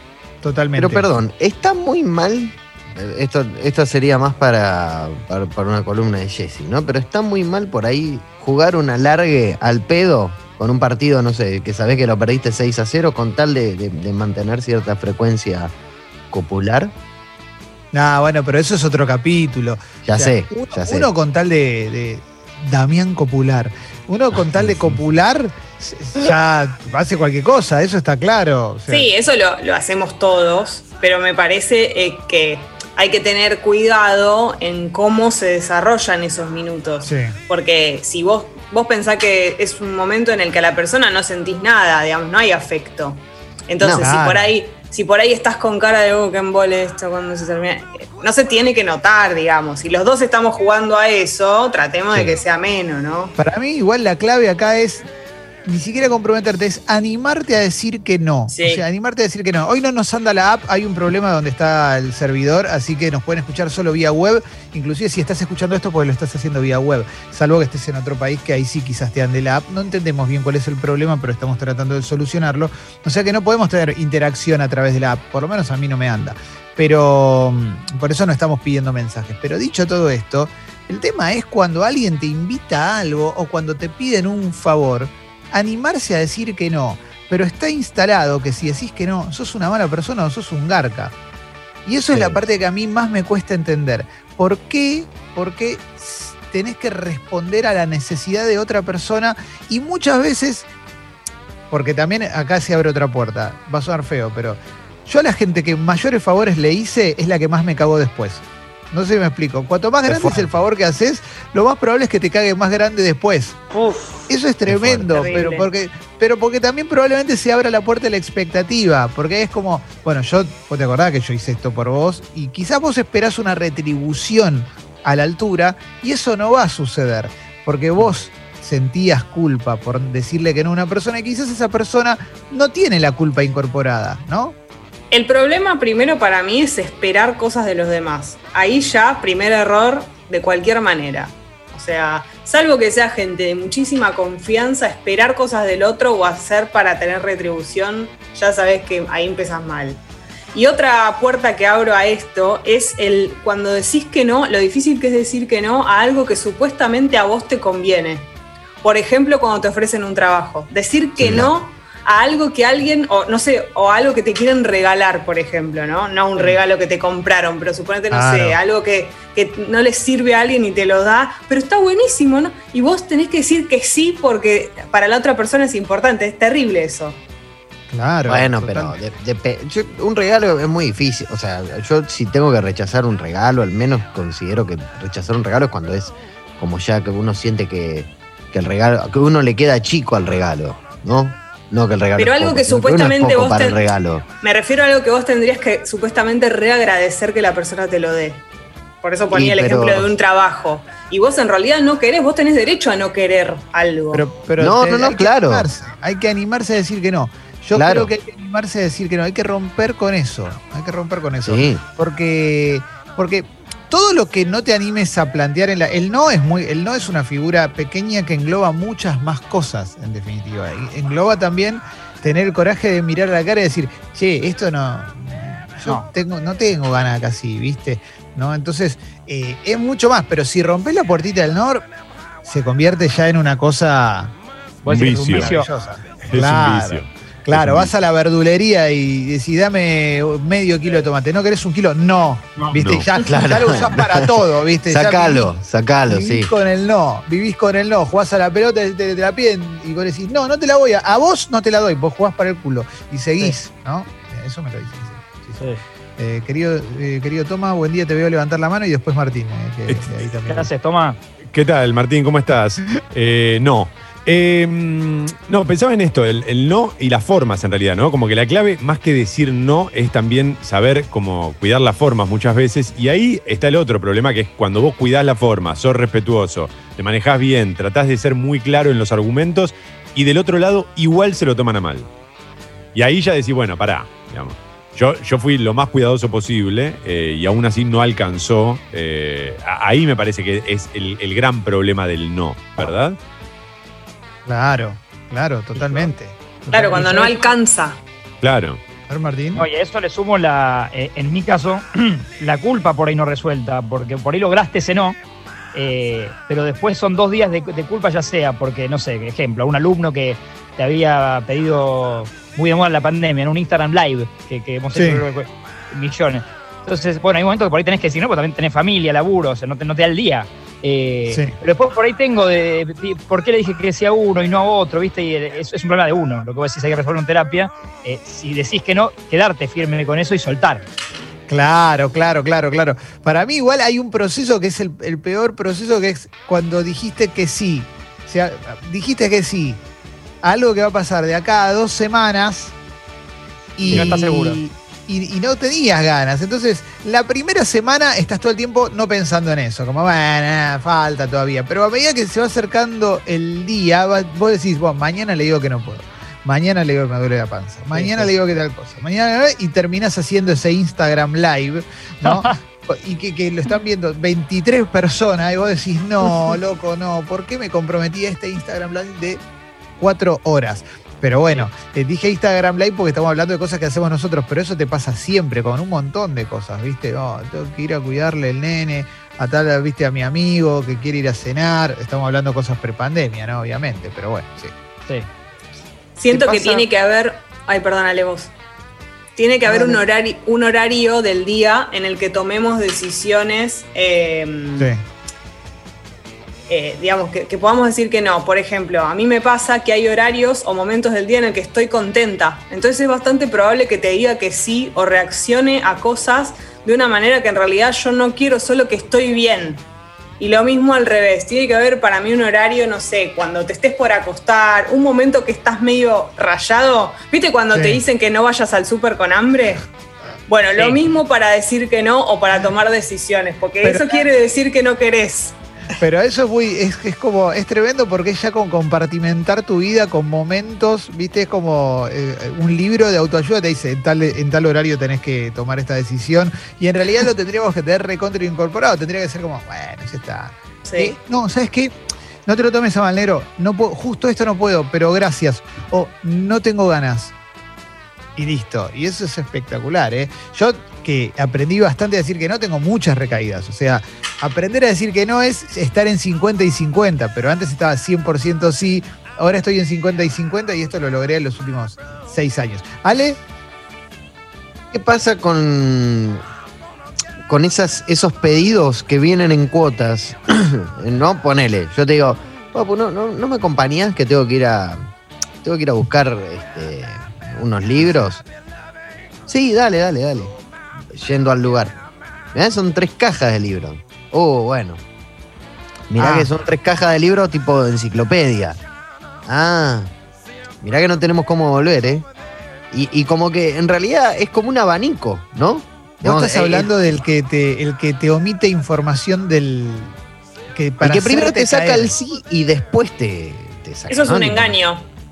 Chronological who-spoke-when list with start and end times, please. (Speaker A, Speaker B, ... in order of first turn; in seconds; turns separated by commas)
Speaker A: 0.4-1.1, Speaker B: 0.8-15.7, Speaker B: 16.3-16.9, Speaker A: 17.9-29.1, Speaker B: 20.0-21.1, Speaker B: 24.6-24.9, Speaker C: 28.9-53.4, Speaker A: 37.0-37.4, Speaker B: 43.8-44.1, Speaker A: 44.0-44.5, Speaker A: 53.4-55.1, Speaker A: 55.6-91.2, Speaker C: 58.5-58.8, Speaker A: 91.8-100.7, Speaker B: 92.1-92.4, Speaker A: 101.7-113.6, Speaker B: 110.1-110.5, Speaker A: 114.3-134.6, Speaker B: 114.7-115.4, Speaker C: 115.1-115.7, Speaker C: 135.1-150.0, Speaker C: 150.5-158.3, Speaker C: 158.8-177.2, Speaker B: 161.2-161.5, Speaker A: 168.1-168.6, Speaker A: 177.9-179.0, Speaker B: 178.3-194.3, Speaker C: 192.2-193.8, Speaker C: 194.4-198.4, Speaker C: 199.0-204.2, Speaker B: 199.3-200.1, Speaker A: 204.1-231.8, Speaker B: 204.6-205.7, Speaker B: 207.8-208.1, Speaker B: 211.4-211.8, Speaker A: 232.4-234.3, Speaker D: 234.8-235.7, Speaker E: 234.9-235.6, Speaker A: 235.2-245.5, Speaker E: 236.3-237.9, Speaker E: 242.7-243.1, Speaker B: 243.2-246.5, Speaker A: 246.1-255.7, Speaker A: 256.2-260.7, Speaker E: 259.9-260.2, Speaker D: 260.5-261.2, Speaker E: 261.5-282.1, Speaker E: 282.9-293.2, Speaker A: 294.5-297.5, Speaker D: 295.8-296.1, Speaker C: 296.7-298.0, Speaker E: 298.4-298.8, Speaker A: 299.1-299.7, Speaker D: 299.6-305.2, Speaker D: 305.7-330.8, Speaker A: 314.9-315.2, Speaker A: 331.5-339.8, Speaker A: 340.4-342.8, Speaker A: 343.8-369.4, Speaker D: 343.9-344.6, Speaker D: 357.9-358.3, Speaker D: 362.2-362.5, Speaker A: 370.0-384.7, Speaker C: 386.2-388.5, Speaker A: 386.3-386.9, Speaker C: 389.4-394.9, Speaker A: 389.6-390.0, Speaker A: 394.8-395.0, Speaker C: 396.7-409.9, Speaker C: 410.4-419.8, Speaker A: 417.7-418.0, Speaker C: 420.5-425.6, Speaker D: 420.8-421.0, Speaker A: 423.8-424.3, Speaker A: 426.0-441.9, Speaker C: 440.8-441.2, Speaker A: 442.5-447.3, Speaker A: 448.4-463.4, Speaker B: 464.9-466.4, Speaker B: 467.5-475.1, Speaker B: 475.6-478.4, Speaker B: 479.5-480.5, Speaker B: 481.1-481.9, Speaker B: 482.5-485.0, Speaker B: 486.1-488.8, Speaker A: 486.2-486.5, Speaker B: 489.5-490.1, Speaker B: 490.8-492.3, Speaker B: 492.9-496.9, Speaker A: 496.2-500.2, Speaker A: 500.7-502.1, Speaker B: 501.0-504.8, Speaker C: 504.1-505.1